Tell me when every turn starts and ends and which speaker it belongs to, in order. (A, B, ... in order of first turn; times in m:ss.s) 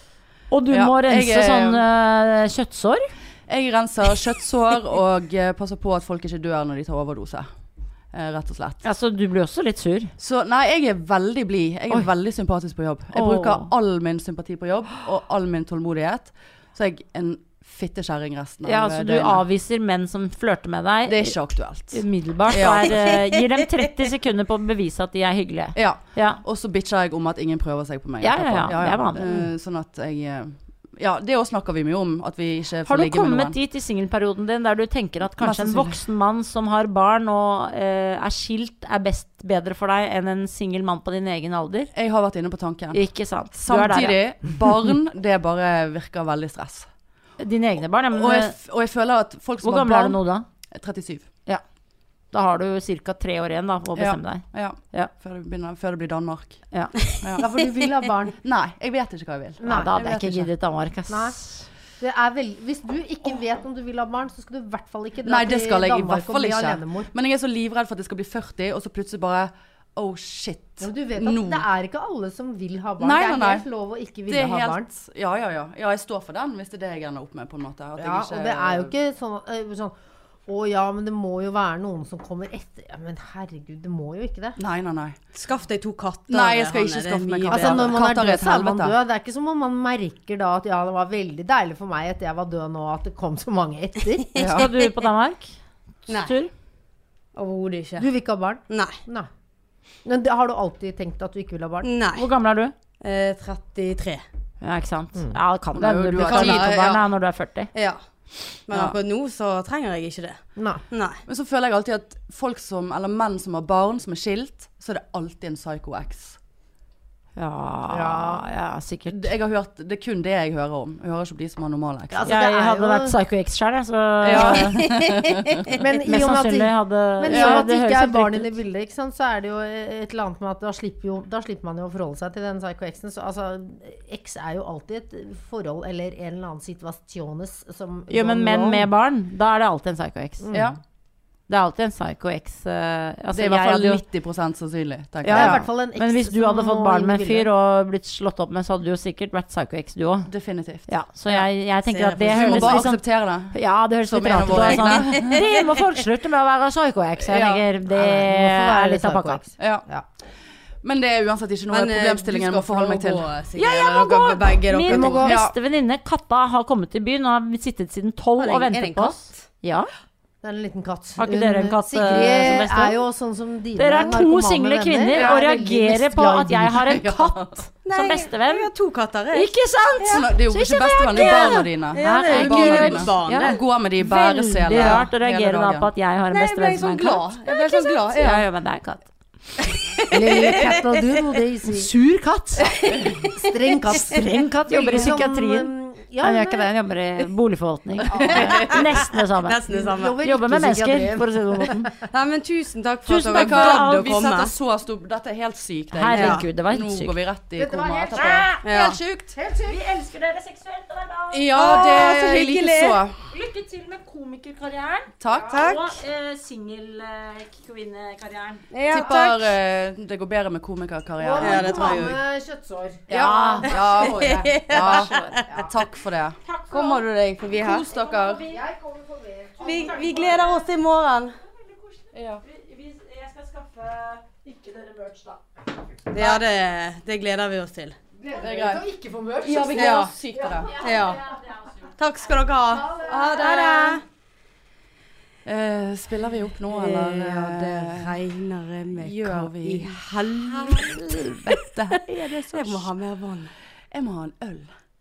0:00.5-0:03.1 A
0:00.7-0:01.8 B
0:03.5-0:07.5 B
0:08.1-0:08.8 B
0:08.8-0:10.1 A
0:10.2-0:19.4 B
0:13.1-0:13.7 A
0:18.6-0:21.4 A
0:21.0-0:23.0 B
0:21.9-0:26.4 A
0:22.5-0:23.4 C
0:25.7-0:33.6 B
0:28.2-0:29.3 A
0:32.8-0:41.9 A
0:35.4-0:36.0 B
0:41.9-0:43.0 B
0:42.9-0:44.2 A
0:43.6-0:46.9 B
0:47.4-0:48.5 A
0:48.1-0:51.3 B
0:49.6-0:50.4 A
0:52.3-0:55.1 A
0:54.0-0:57.5 B
0:57.4-0:58.4 D
0:58.4-1:00.5 B
0:59.6-0:59.9 D
0:59.6-1:01.7 A
1:01.1-1:01.4 D
1:02.0-1:07.1 D
1:05.2-1:11.6 B
1:10.8-1:14.9 D
1:13.0-1:13.6 B
1:14.3-1:18.9 B
1:18.0-1:24.6 D
1:24.6-1:25.2 B
1:25.3-1:28.0 C
1:26.3-1:28.9 B
1:27.5-1:34.6 D
1:34.4-1:34.7 B
1:34.4-1:35.5 A
1:36.0-1:36.5 A
1:36.1-1:36.3 C
1:37.3-1:38.1 C
1:38.0-1:39.3 D
1:38.7-1:39.0 C
1:40.0-1:41.9 D
1:41.8-1:42.3 C
1:42.1-1:42.7 A
1:43.0-1:44.2 C
1:44.6-1:47.7 A
1:45.7-1:46.9 B
1:46.2-1:47.0 C
1:47.7-1:48.0 C
1:48.7-1:51.2 C
1:48.7-1:49.0 B
1:50.6-1:50.8 D
1:51.2-1:56.4 B
1:57.4-1:59.3 A
1:57.9-1:58.4 D
1:59.1-2:02.3 B
2:02.1-2:03.2 D
2:02.2-2:05.0 A
2:04.2-2:05.7 B
2:05.7-2:18.9 D
2:06.0-2:08.6 A
2:07.3-2:07.6 B
2:18.1-2:20.5 A
2:20.4-2:20.8 D
2:20.5-2:20.8 B
2:21.5-2:24.0 A
2:23.3-2:25.6 B
2:25.2-2:30.3 A
2:25.3-2:27.5 D
2:30.3-2:31.4 B
2:30.9-2:39.4 A
2:31.9-2:32.8 C
2:32.3-2:35.4 B
2:34.5-2:35.5 C
2:37.2-2:37.6 B
2:37.9-2:40.0 D
2:39.6-2:39.8 B
2:40.8-2:43.3 B
2:41.7-2:45.3 C
2:43.6-2:49.9 A
2:44.9-2:45.3 D
2:45.2-2:45.5 B
2:48.4-2:49.4 C
2:50.4-2:57.0 D
2:51.2-2:53.0 A
2:53.8-2:58.7 A
2:56.8-2:57.6 B
2:57.8-3:00.3 C
2:59.3-3:09.1 A
3:00.0-3:05.9 B
3:01.9-3:03.6 C
3:04.7-3:05.0 C
3:06.3-3:08.4 C
3:09.9-3:10.9 C
3:10.1-3:11.9 D
3:11.6-3:12.8 A
3:12.6-3:13.3 C
3:13.2-3:16.7 D
3:13.9-3:19.6 A
3:18.1-3:18.9 D
3:18.1-3:18.5 B
3:18.2-3:20.2 C
3:19.7-3:21.9 D
3:20.2-3:21.9 A
3:22.1-3:24.5 C
3:23.0-3:24.3 A
3:23.3-3:29.3 B
3:25.9-3:27.1 A
3:26.1-3:26.4 C
3:27.6-3:28.5 D
3:28.1-3:28.7 A
3:28.6-3:29.0 C
3:29.3-3:29.8 D
3:29.6-3:31.6 A
3:31.3-3:33.2 B
3:31.4-3:33.0 C
3:33.3-3:38.7 A
3:35.2-3:35.5 B
3:35.4-3:36.0 C
3:38.7-3:39.5 C
3:38.9-3:42.1 B
3:41.2-3:44.6 D
3:41.4-3:42.2 C
3:43.1-3:45.4 A
3:43.1-3:46.4 B
3:43.7-3:45.7 C
3:46.4-3:47.0 A
3:46.7-3:47.9 C
3:47.5-3:48.4 B
3:47.9-3:48.7 A
3:48.5-3:50.3 D
3:49.6-3:50.7 A
3:49.6-3:51.4 C
3:51.4-3:55.4 A
3:52.1-3:52.4 B
3:56.1-3:58.0 C
3:58.2-4:00.1 D
3:58.3-3:58.8 B
3:59.4-4:00.8 B
3:59.7-4:00.1 C
4:00.4-4:01.9 A
4:00.8-4:01.3 C
4:02.0-4:04.0 C
4:03.1-4:04.0 B
4:05.4-4:08.2 B
4:06.7-4:11.5 C
4:08.9-4:12.9 B
4:12.2-4:13.5 C
4:13.9-4:14.7 B